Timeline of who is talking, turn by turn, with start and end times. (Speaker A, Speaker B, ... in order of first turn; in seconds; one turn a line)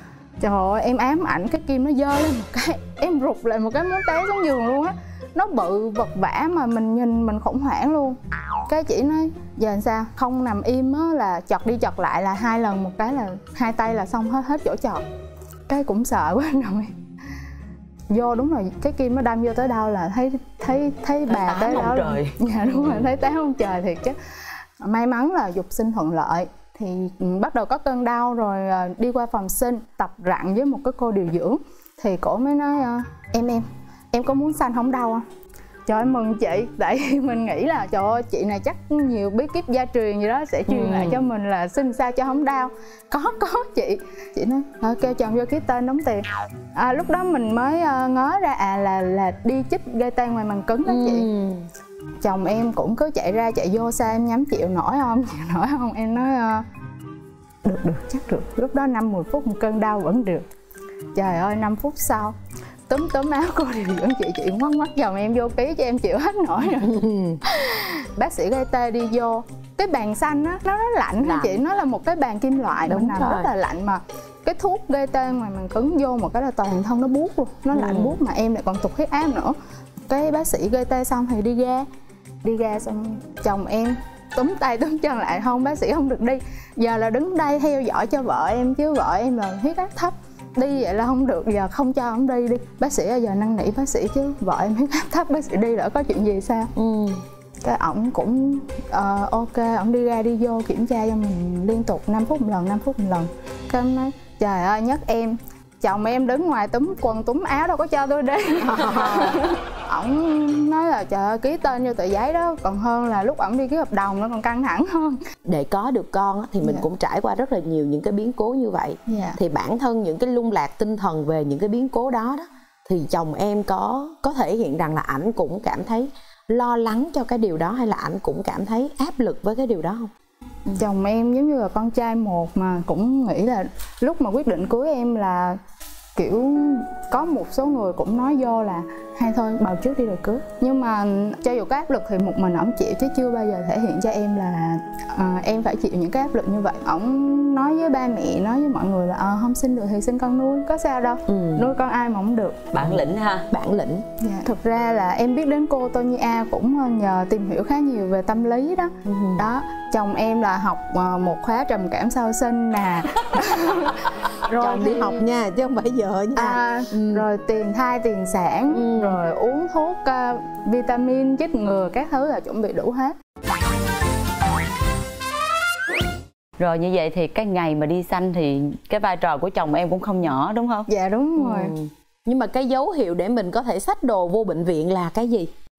Speaker A: 0.4-15.0
Speaker A: 15.7-16.9
Speaker A: 18.1-24.1
Speaker B: 21.3-22.3
Speaker A: 24.8-35.2
Speaker A: 35.9-51.3
Speaker C: 40.7-41.2
Speaker C: 50.9-51.7
Speaker A: 52.2-56.6
Speaker A: 57.6-60.5
Speaker A: 61.1-62.3
Speaker A: 62.9-79.5
Speaker C: 66.7-67.4
Speaker C: 71.2-71.6
Speaker C: 72.9-73.5
Speaker C: 77.7-78.2
Speaker A: 80.1-81.9
Speaker A: 82.4-96.7
Speaker C: 96.8-97.2
Speaker A: 97.6-115.2
Speaker C: 108.6-109.4
Speaker C: 115.5-130.1
Speaker A: 119.1-119.4
Speaker A: 130.8-135.6
Speaker A: 136.2-152.7
Speaker C: 151.3-151.7
Speaker B: 152.7-153.5
Speaker C: 152.8-154.0
Speaker A: 154.2-165.2
Speaker C: 159.1-159.4
Speaker C: 164.6-167.2
Speaker A: 166.3-173.1
Speaker C: 168.7-169.2
Speaker B: 176.6-180.9
Speaker A: 180.9-181.7
Speaker C: 181.4-185.5